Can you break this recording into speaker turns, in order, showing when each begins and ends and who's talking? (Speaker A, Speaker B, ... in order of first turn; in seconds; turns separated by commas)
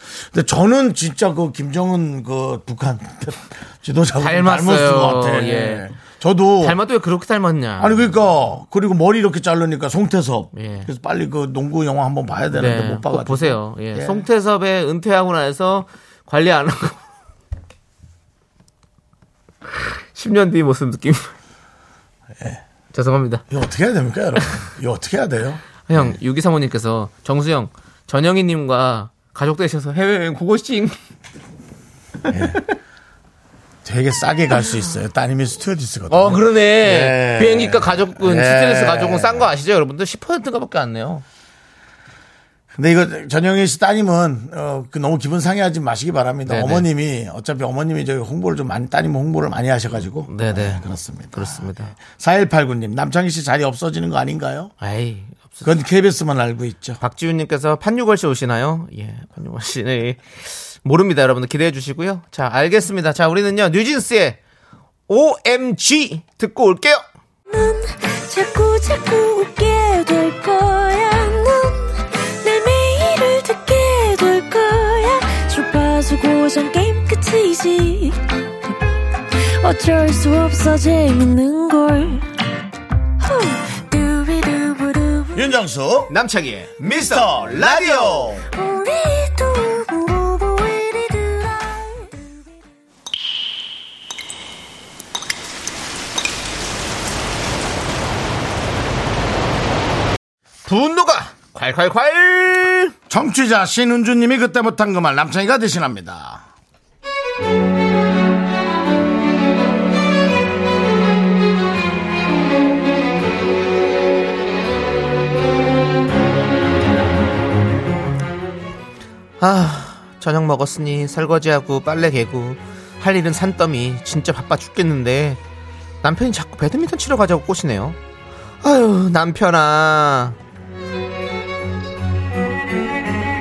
Speaker A: 0.1-6.8, Speaker B: 4.2-5.9, Speaker B: 6.6-8.1, Speaker A: 7.8-14.2, Speaker B: 10.5-10.9, Speaker B: 12.5-17.0, Speaker B: 19.7-21.3, Speaker B: 22.9-23.4, Speaker A: 23.5-26.2, Speaker B: 25.9-30.9, Speaker A: 32.3-32.6, Speaker B: 32.3-32.6, Speaker A: 33.8-39.5, Speaker B: 36.1-41.2, Speaker A: 42.7-54.7, Speaker B: 46.5-46.9, Speaker B: 50.3-52.0, Speaker B: 54.8-55.7, Speaker A: 55.6-57.0, Speaker B: 57.0-64.4, Speaker B: 65.1-67.0, Speaker C: 67.5-78.2, Speaker C: 79.3-82.3, Speaker C: 83.2-85.4, Speaker A: 85.3-86.1, Speaker B: 86.1-88.3, Speaker A: 86.8-88.5, Speaker C: 88.5-92.3, Speaker B: 100.7-102.9, Speaker A: 103.1-106.4, Speaker B: 119.4-125.4, Speaker B: 126.0-128.0, Speaker B: 128.6-130.4